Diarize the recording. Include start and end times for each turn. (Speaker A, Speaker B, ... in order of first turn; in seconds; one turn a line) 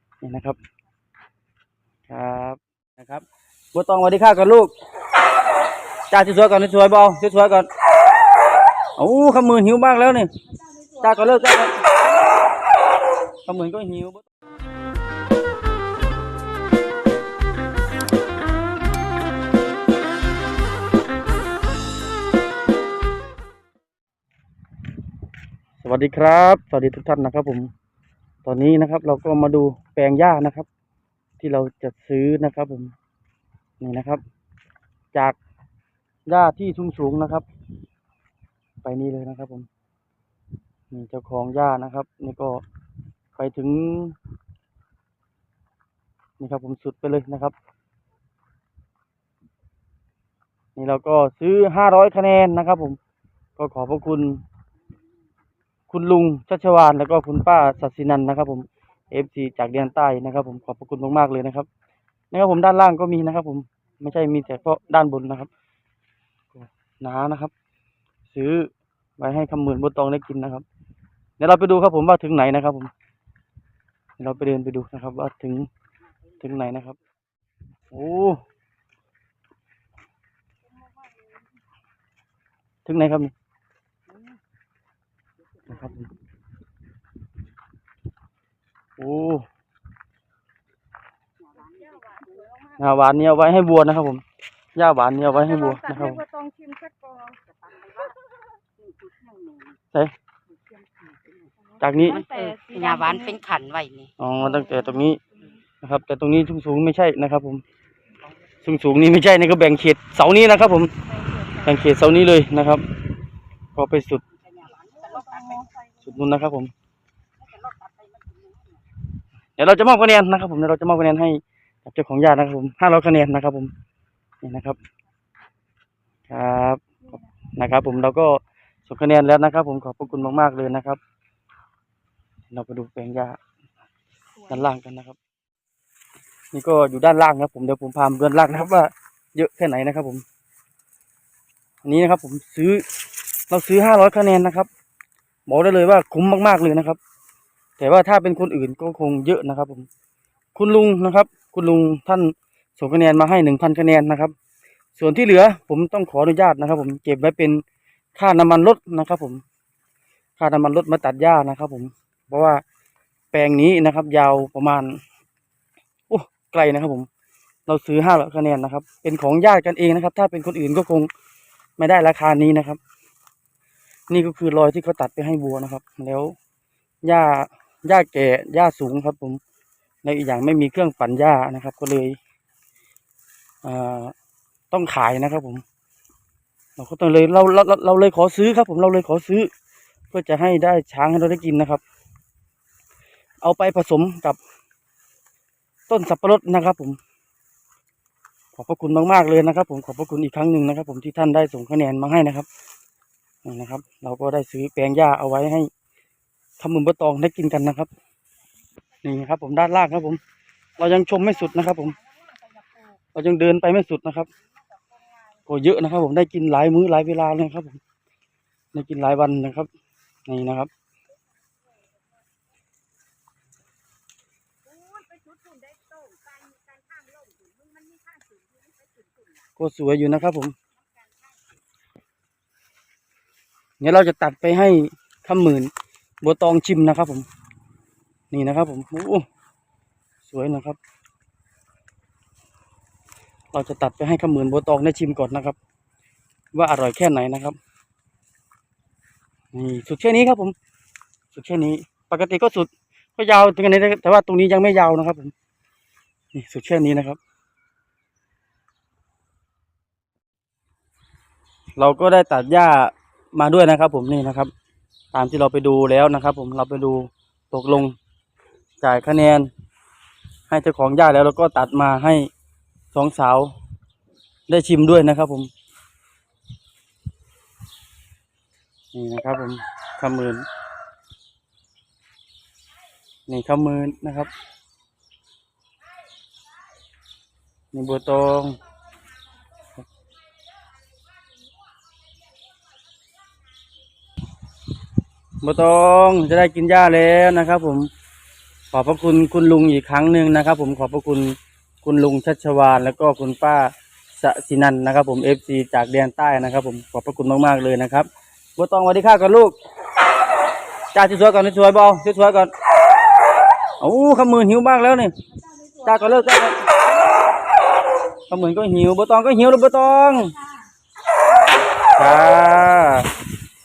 Speaker A: 0.2-0.6
Speaker A: 2.1-4.7
Speaker A: 6.1-7.7
Speaker A: 9.0-10.3
Speaker A: 11.0-12.0
Speaker A: 13.4-14.2
Speaker A: 25.8-27.7
Speaker A: 28.4-30.7
Speaker A: 31.4-32.9
Speaker A: 33.8-34.2
Speaker A: 36.3-37.5
Speaker A: 38.8-39.7
Speaker A: 40.9-42.6
Speaker A: 43.4-44.1
Speaker A: 46.4-47.5
Speaker A: 50.8-53.0
Speaker A: 53.6-54.4
Speaker A: 55.9-61.7
Speaker A: 62.3-65.5
Speaker A: 67.0-67.5
Speaker A: 68.3-70.6
Speaker A: 71.4-72.9
Speaker A: 74.2-75.7
Speaker A: 76.4-77.0
Speaker A: 77.9-78.4
Speaker A: 82.8-83.3
Speaker A: 85.7-86.1
Speaker A: 89.0-89.5
Speaker B: 91.8-92.1
Speaker A: 92.8-94.2
Speaker A: 94.8-96.3
Speaker C: 96.2-98.1
Speaker A: 101.8-102.3
Speaker B: 102.2-104.1
Speaker C: 102.4-102.9
Speaker A: 104.2-105.2
Speaker A: 105.8-107.6
Speaker A: 108.6-110.9
Speaker A: 111.5-112.8
Speaker A: 113.7-114.2
Speaker C: 115.1-115.6
Speaker A: 116.0-116.7
Speaker B: 117.5-118.6
Speaker A: 119.6-123.7
Speaker A: 124.4-124.8
Speaker A: 126.3-126.8
Speaker A: 127.5-131.0
Speaker A: 132.5-133.4
Speaker A: 134.5-135.2
Speaker A: 136.5-140.2
Speaker A: 141.8-142.8
Speaker A: 143.5-144.7
Speaker A: 145.5-147.0
Speaker A: 147.8-149.9
Speaker A: 150.5-154.3
Speaker A: 154.9-157.6
Speaker A: 158.2-159.4
Speaker A: 160.4-162.6
Speaker A: 163.3-165.0
Speaker A: 166.1-167.1
Speaker A: 167.7-171.1
Speaker A: 171.8-172.8
Speaker A: 174.1-176.3
Speaker A: 177.0-179.4
Speaker A: 180.0-182.2
Speaker A: 183.6-184.1
Speaker A: 184.7-185.6
Speaker A: 186.8-189.5
Speaker A: 190.1-191.8
Speaker A: 193.4-194.4
Speaker A: 195.9-197.0
Speaker A: 198.5-202.5
Speaker A: 203.4-205.7
Speaker A: 206.6-207.9
Speaker A: 209.0-210.2
Speaker A: 210.8-212.0
Speaker A: 213.1-214.3
Speaker A: 215.4-217.8
Speaker A: 218.7-219.7
Speaker A: 220.3-220.7
Speaker C: 224.7-229.3
Speaker A: 229.6-230.5
Speaker A: 233.8-235.7
Speaker A: 236.2-237.3
Speaker A: 238.3-239.2
Speaker A: 240.2-240.8
Speaker A: 243.5-245.6
Speaker A: 246.5-247.6
Speaker A: 249.5-250.5
Speaker A: 251.3-255.3
Speaker A: 256.3-257.2
Speaker A: 261.8-264.5
Speaker A: 265.1-267.9
Speaker A: 268.8-269.5
Speaker A: 270.5-272.3
Speaker A: 272.9-273.5
Speaker A: 274.5-275.5
Speaker A: 278.9-280.4
Speaker A: 283.3-284.3
Speaker A: 287.7-288.6
Speaker A: 295.4-297.9
Speaker A: 298.7-309.6
Speaker A: 310.9-312.5
Speaker A: 313.8-315.1
Speaker A: 315.8-316.6
Speaker A: 318.3-320.4
Speaker A: 321.9-323.1